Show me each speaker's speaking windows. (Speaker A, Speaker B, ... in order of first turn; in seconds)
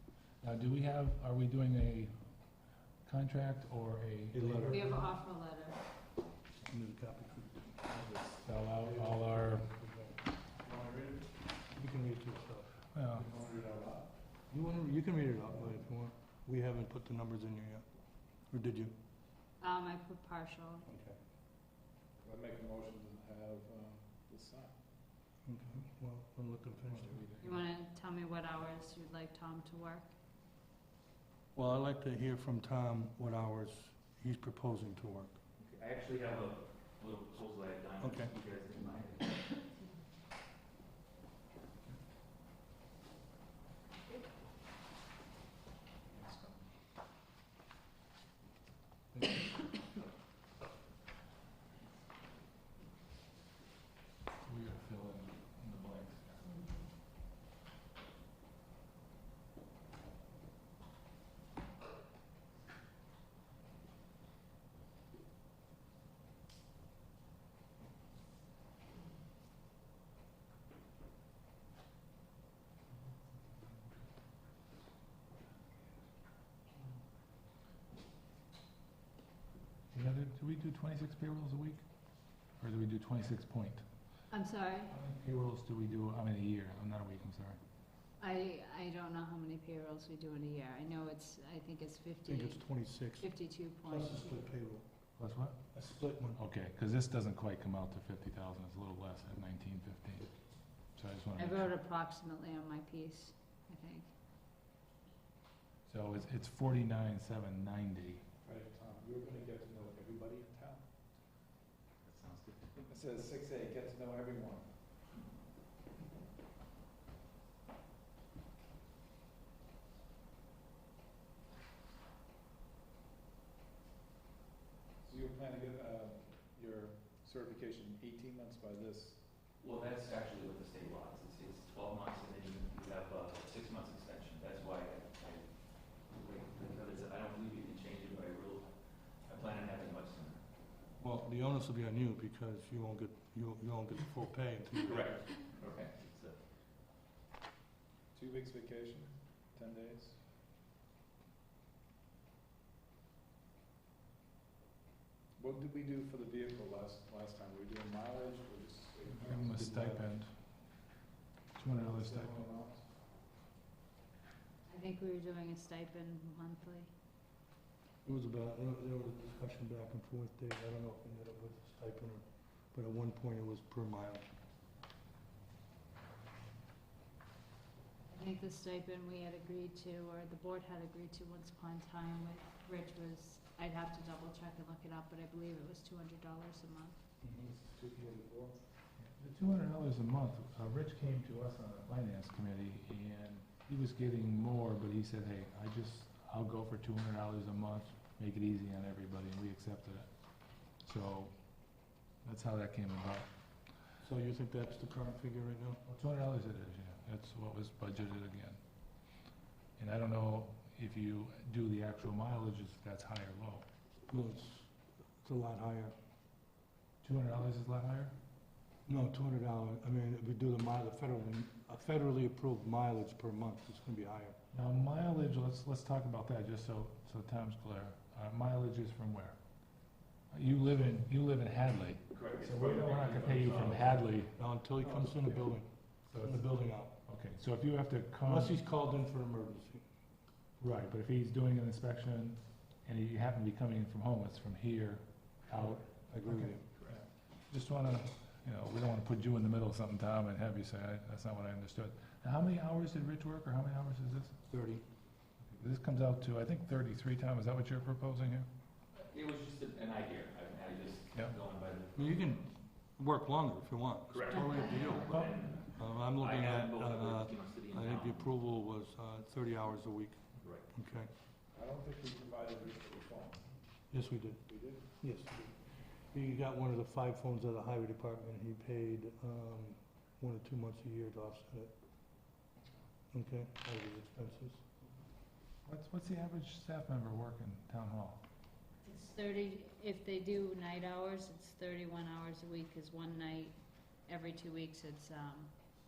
Speaker A: 0.4-2.2, 3.0-5.0, 7.9-9.7, 12.9-13.2, 27.1-27.4, 54.4-56.4, 79.9-81.8, 82.5-83.8, 84.9-87.6, 95.2-95.8, 96.3-100.3, 100.9-101.7, 105.8-108.2, 159.1-160.3, 161.6-162.4, 187.2-188.5, 189.0-200.1, 200.8-201.3, 202.2-203.3, 205.8-208.6, 209.8-213.7, 217.0-218.1, 224.5-229.4, 230.3-235.0, 236.1-238.6, 240.6-246.9, 247.5-254.4, 255.5-258.5, 265.1-265.3, 285.6-288.2
Speaker B: 4.3-5.0, 6.7-7.9, 8.8-10.2, 10.8-11.2, 11.7-12.8, 14.5-17.9, 18.5-18.9, 20.9-21.2, 25.4-27.4, 31.5-35.4, 38.0-38.3, 92.2-94.8, 95.7-96.4, 141.0-145.2, 168.0-174.3, 204.0-205.8, 214.1-214.7, 215.2-215.9, 218.8-224.4, 234.3-236.9, 238.2-239.8, 246.1-246.7, 254.5-254.8, 261.9-271.1, 273.9-275.6, 276.1-281.7, 283.1-284.7
Speaker C: 4.7-5.8, 19.6-20.9, 27.4-30.1, 84.3-84.9, 88.2-94.4, 101.3-104.1, 164.7-166.9, 178.1-187.0, 264.2-265.1, 288.8-295.5
Speaker D: 13.1-14.1, 22.2-24.8, 108.4-110.9, 112.8-114.7, 125.0-129.2, 148.1-150.2, 155.4-160.1, 161.6-162.8, 271.5-273.5, 274.5-274.8
Speaker E: 35.6-39.6, 112.0-112.6, 129.6-140.4, 144.8-146.4, 232.1-234.0, 259.0-262.1, 264.1-268.3, 270.4-270.7